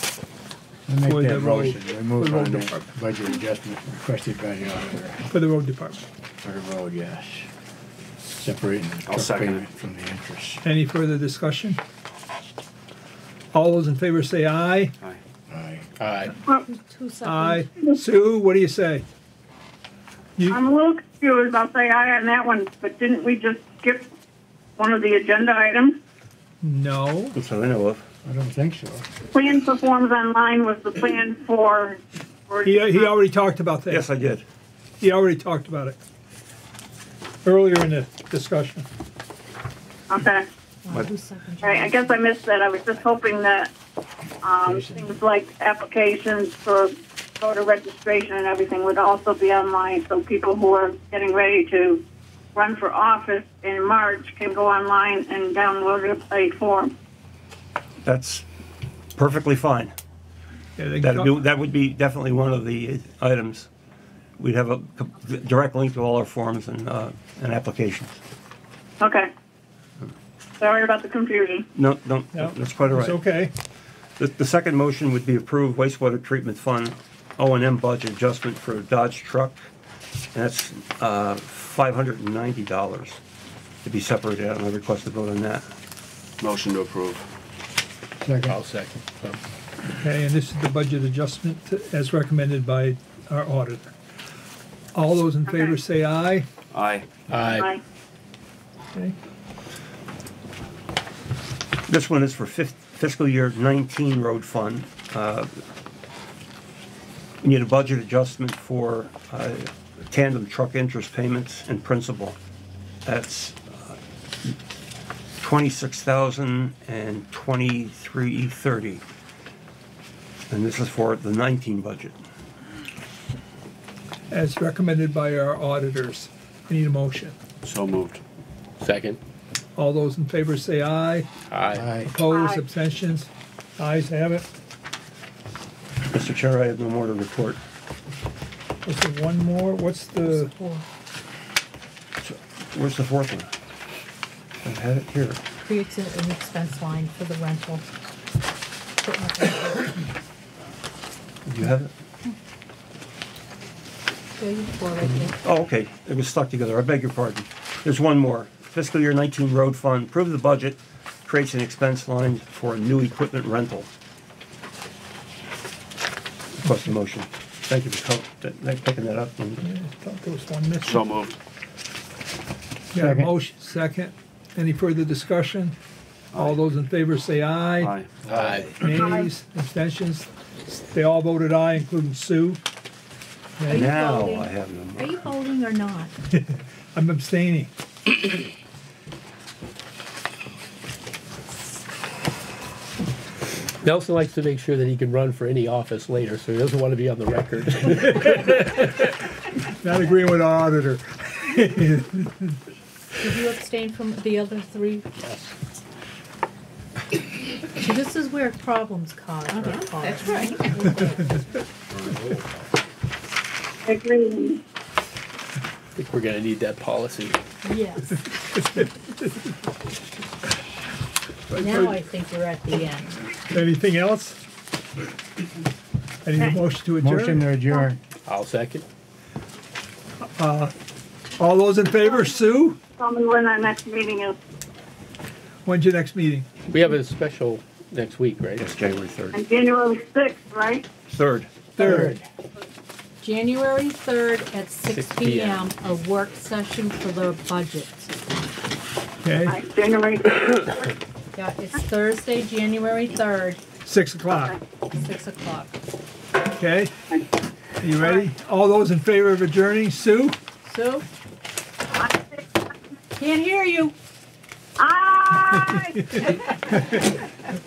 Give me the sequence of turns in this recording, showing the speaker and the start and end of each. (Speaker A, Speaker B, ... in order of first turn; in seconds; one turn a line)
Speaker A: 0.9-5.2
Speaker B: 1.0-2.9
Speaker B: 5.3-6.0
Speaker A: 6.4-7.5
Speaker A: 8.4-10.6
Speaker C: 9.1-9.7
Speaker B: 10.6-11.8
Speaker B: 13.5-14.9
Speaker A: 15.5-15.8
Speaker D: 16.0-16.3
Speaker E: 16.4-17.7
Speaker B: 17.2-19.0
Speaker F: 20.5-24.0
Speaker F: 24.8-25.9
Speaker B: 26.6-27.4
Speaker G: 27.3-28.0
Speaker A: 28.2-29.1
Speaker F: 29.3-32.8
Speaker B: 32.6-34.1
Speaker G: 33.9-34.4
Speaker B: 35.0-36.0
Speaker B: 37.4-38.9
Speaker F: 40.1-40.4
Speaker E: 40.8-42.3
Speaker F: 41.6-43.7
Speaker F: 44.4-46.9
Speaker F: 47.4-52.0
Speaker F: 52.5-56.9
Speaker G: 58.0-58.5
Speaker G: 59.1-59.9
Speaker B: 60.8-61.4
Speaker G: 61.0-63.7
Speaker G: 64.4-68.2
Speaker F: 69.0-69.2
Speaker F: 70.6-71.6
Speaker G: 71.7-73.2
Speaker B: 72.3-73.5
Speaker G: 74.2-79.7
Speaker G: 80.3-83.2
Speaker G: 83.8-85.7
Speaker C: 86.4-87.3
Speaker A: 88.2-88.6
Speaker D: 88.5-89.4
Speaker B: 90.0-93.9
Speaker B: 94.9-96.5
Speaker C: 96.7-97.1
Speaker D: 97.3-97.8
Speaker G: 101.9-105.5
Speaker G: 107.4-112.4
Speaker G: 113.0-114.5
Speaker G: 115.4-119.0
Speaker G: 120.5-122.2
Speaker B: 124.3-127.3
Speaker C: 127.6-128.2
Speaker D: 128.8-129.2
Speaker B: 129.8-131.3
Speaker D: 131.5-131.9
Speaker A: 131.7-132.1
Speaker B: 132.1-134.4
Speaker F: 132.3-132.6
Speaker G: 136.1-137.6
Speaker B: 138.8-140.5
Speaker E: 140.2-140.8
Speaker G: 142.2-143.5
Speaker G: 144.6-145.4
Speaker E: 145.6-147.8
Speaker E: 149.0-150.0
Speaker G: 151.4-151.9
Speaker E: 154.4-155.4
Speaker G: 155.4-163.9
Speaker G: 166.6-169.6
Speaker B: 169.6-171.0
Speaker C: 170.8-171.4
Speaker B: 172.9-175.8
Speaker A: 172.9-173.3
Speaker C: 176.3-176.6
Speaker B: 176.3-177.9
Speaker C: 177.8-178.1
Speaker A: 178.2-178.6
Speaker D: 178.3-178.9
Speaker B: 178.7-182.6
Speaker B: 183.6-183.9
Speaker E: 183.7-186.1
Speaker G: 183.7-185.3
Speaker B: 186.3-187.7
Speaker D: 193.8-198.8
Speaker B: 198.2-198.8
Speaker B: 199.7-202.6
Speaker E: 203.2-205.1
Speaker E: 207.7-211.3
Speaker F: 213.8-214.6
Speaker D: 215.9-217.4
Speaker E: 217.6-218.3
Speaker B: 221.5-222.0
Speaker E: 221.5-223.2
Speaker B: 223.5-224.4
Speaker B: 226.2-227.6
Speaker A: 227.0-228.0
Speaker D: 228.2-228.8
Speaker B: 230.4-230.7
Speaker B: 231.4-232.8
Speaker F: 233.0-234.3
Speaker B: 235.6-236.5
Speaker D: 236.7-238.7
Speaker G: 238.6-239.4
Speaker F: 239.5-240.9
Speaker G: 241.0-241.5
Speaker B: 241.8-242.2
Speaker A: 241.8-242.2
Speaker E: 243.2-248.1
Speaker D: 244.9-245.7
Speaker B: 249.2-249.6
Speaker F: 249.5-250.3
Speaker E: 251.3-253.6
Speaker B: 253.8-254.6
Speaker E: 254.9-255.7
Speaker B: 256.6-256.9
Speaker B: 257.8-260.4
Speaker E: 260.6-261.1
Speaker E: 263.1-263.9
Speaker F: 264.8-265.9
Speaker B: 265.7-267.1